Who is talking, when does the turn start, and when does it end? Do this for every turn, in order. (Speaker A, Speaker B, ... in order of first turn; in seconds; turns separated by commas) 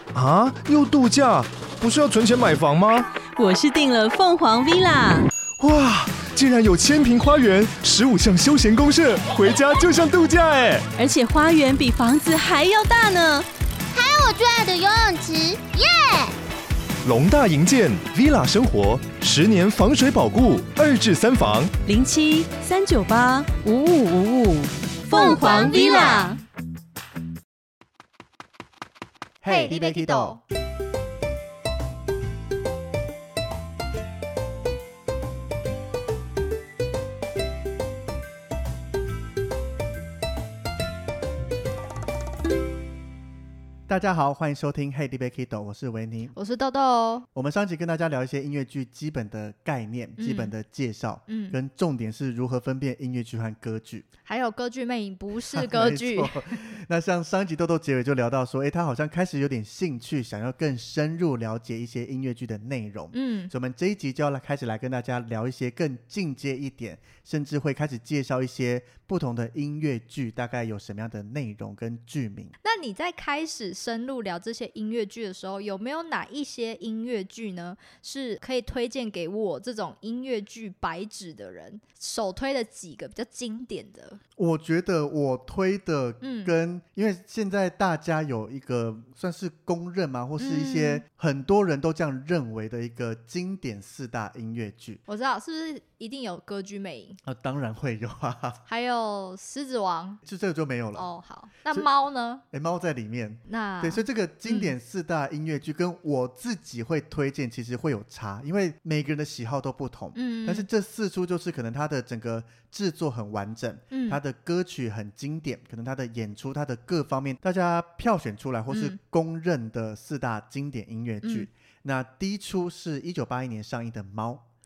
Speaker A: 0.1-3.1, Speaker B: 3.4-5.3, Speaker A: 5.6-10.9, Speaker B: 11.0-13.5, Speaker C: 13.9-16.3, Speaker A: 17.0-21.8, Speaker B: 21.9-26.4, Speaker C: 25.1-26.4, Speaker D: 29.4-30.4, Speaker E: 29.5-30.4, Speaker D: 43.9-46.4, Speaker E: 46.4-47.3, Speaker D: 47.3-54.1, Speaker E: 50.2-50.5, Speaker E: 51.3-51.6, Speaker E: 54.3-56.7, Speaker D: 55.5-72.6, Speaker E: 63.1-63.5, Speaker E: 72.6-84.2, Speaker D: 84.4-95.0, Speaker E: 86.2-86.5, Speaker E: 90.4-91.0, Speaker E: 95.1-97.2, Speaker D: 97.2-98.6, Speaker E: 98.7-100.2, Speaker D: 100.2-101.1, Speaker E: 100.9-102.4, Speaker D: 102.5-124.5, Speaker E: 103.5-104.8, Speaker E: 110.1-110.7, Speaker E: 113.9-114.2, Speaker E: 118.7-119.0, Speaker E: 121.2-121.5